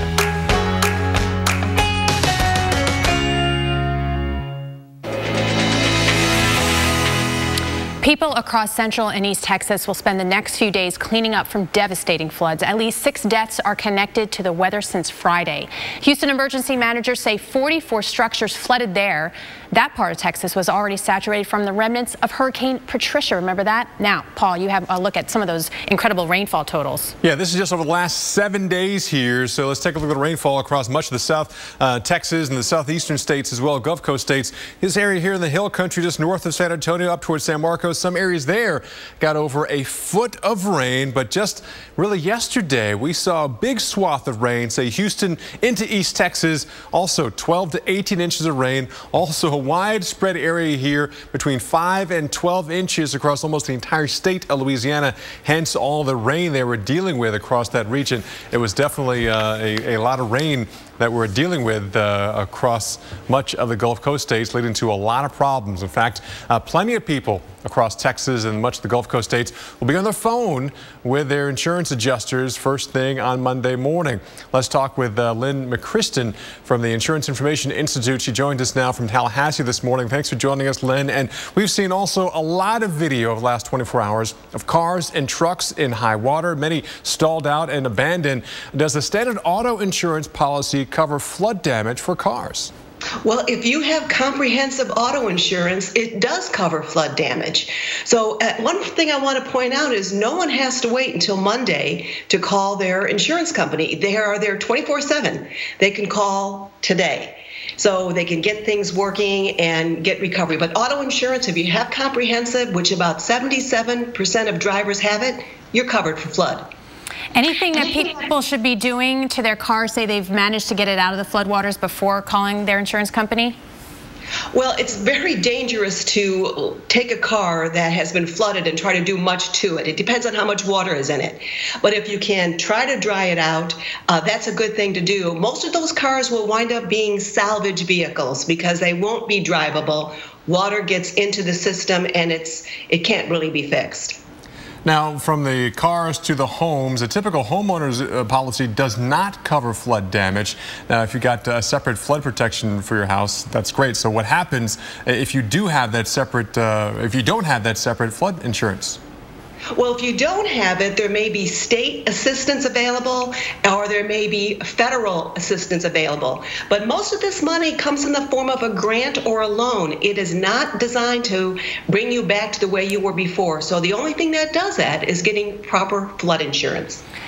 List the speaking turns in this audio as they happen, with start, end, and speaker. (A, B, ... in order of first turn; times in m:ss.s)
0:08.0-0:27.1 A
0:27.2-1:32.7 B
1:33.2-1:56.7 C
1:57.3-2:03.6 A
2:04.5-2:24.2 C
2:24.8-2:39.0 B
2:39.8-2:57.0 C